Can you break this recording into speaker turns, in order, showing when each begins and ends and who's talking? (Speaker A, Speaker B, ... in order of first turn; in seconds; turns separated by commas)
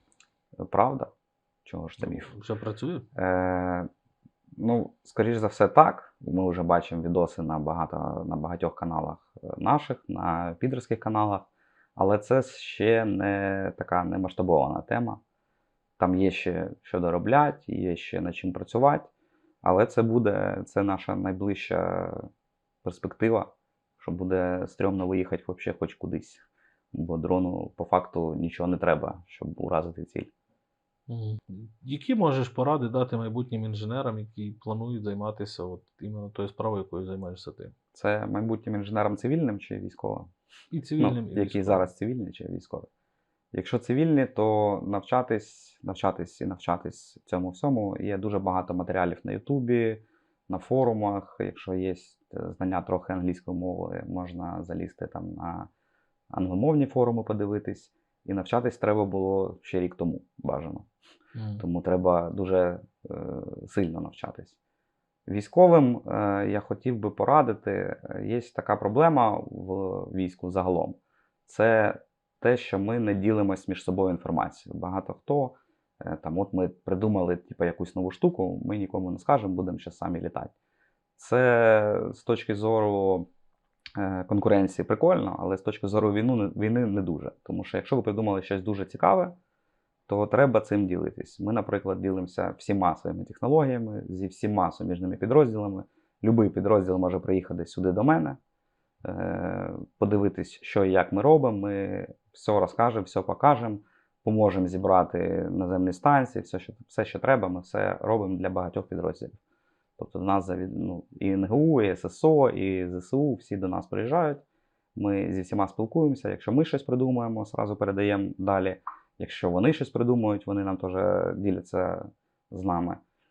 Speaker A: 0.6-1.1, Speaker A: 1.6-2.3, Speaker B: 2.0-3.1, Speaker A: 3.2-3.9, Speaker A: 4.6-15.2, Speaker A: 16.0-19.1, Speaker A: 19.6-22.3, Speaker A: 22.8-30.3, Speaker B: 31.1-37.7, Speaker A: 37.9-40.3, Speaker B: 40.7-41.9, Speaker A: 41.0-42.9, Speaker A: 43.5-55.7, Speaker A: 56.3-60.9, Speaker B: 61.4-61.6, Speaker A: 61.6-64.6, Speaker A: 65.3-80.5, Speaker A: 81.2-83.3, Speaker A: 84.0-89.4, Speaker A: 90.1-98.4, Speaker A: 99.0-109.4, Speaker A: 110.0-123.0